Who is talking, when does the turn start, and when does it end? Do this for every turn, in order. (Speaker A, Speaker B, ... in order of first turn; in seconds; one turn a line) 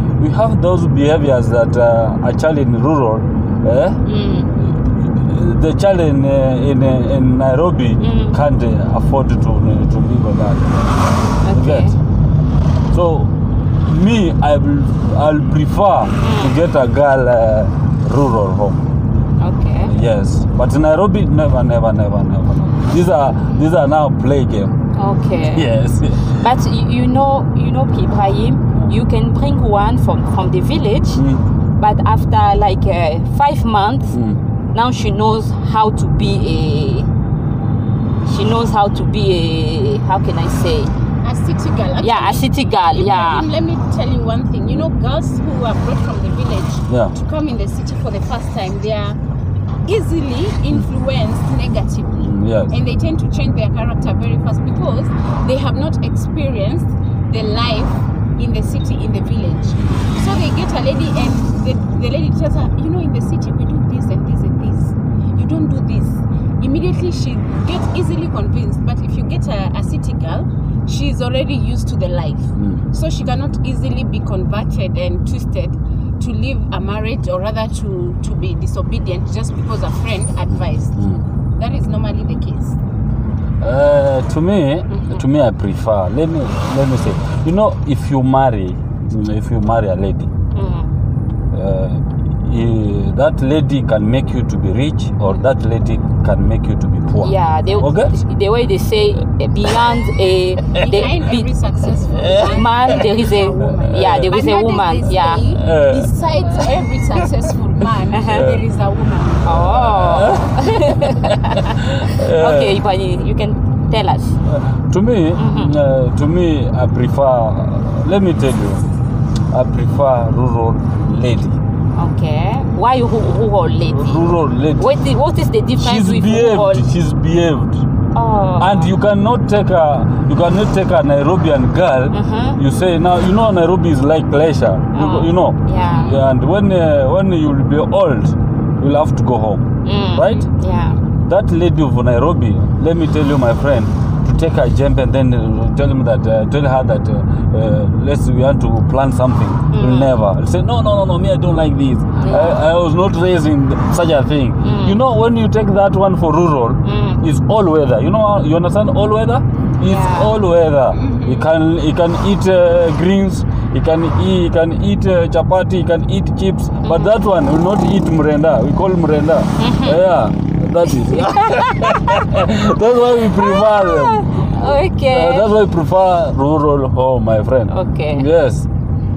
Speaker A: 0.2-4.0
Speaker B: 4.0-4.5
Speaker A: 4.5-11.0
Speaker B: 8.0-8.4
Speaker B: 11.4-11.9
Speaker A: 11.5-12.0
Speaker A: 12.9-13.3
Speaker A: 13.8-18.9
Speaker B: 16.2-16.5
Speaker B: 19.4-19.9
Speaker A: 19.9-24.8
Speaker B: 24.9-25.7
Speaker A: 25.5-26.4
Speaker B: 26.2-31.2
Speaker A: 28.7-29.0
Speaker A: 31.1-31.4
Speaker B: 31.8-34.2
Speaker A: 34.1-34.4
Speaker B: 34.7-37.1
Speaker B: 38.2-40.9
Speaker C: 41.2-49.2
Speaker B: 42.0-43.5
Speaker A: 46.9-47.1
Speaker C: 49.9-81.0
Speaker A: 52.1-52.7
Speaker A: 72.6-72.8
Speaker A: 81.0-81.2
Speaker C: 81.5-82.8
Speaker A: 83.6-90.3
Speaker B: 84.9-85.2
Speaker B: 90.5-90.9
Speaker A: 91.5-98.1
Speaker B: 97.2-101.5
Speaker C: 100.8-109.6
Speaker A: 102.2-103.0
Speaker B: 102.3-105.5
Speaker A: 103.7-104.3
Speaker A: 105.5-106.1
Speaker B: 108.1-108.6
Speaker A: 108.2-108.6
Speaker B: 109.4-114.4
Speaker A: 109.6-111.3
Speaker A: 111.8-112.8
Speaker A: 114.5-118.8
Speaker B: 115.3-115.7
Speaker A: 119.5-121.6
Speaker B: 122.0-126.9
Speaker A: 123.9-124.9
Speaker A: 125.8-127.8
Speaker B: 128.1-128.9
Speaker A: 128.6-140.5
Speaker B: 132.1-132.6
Speaker B: 134.9-136.2
Speaker B: 139.8-141.0
Speaker A: 141.2-178.7
Speaker B: 149.7-150.1
Speaker B: 152.2-152.6
Speaker B: 154.6-155.0
Speaker B: 156.8-157.2
Speaker B: 159.8-160.3
Speaker C: 160.9-161.5
Speaker B: 166.8-167.2
Speaker B: 169.6-170.0
Speaker B: 170.8-172.2
Speaker B: 173.4-175.5
Speaker B: 177.7-178.3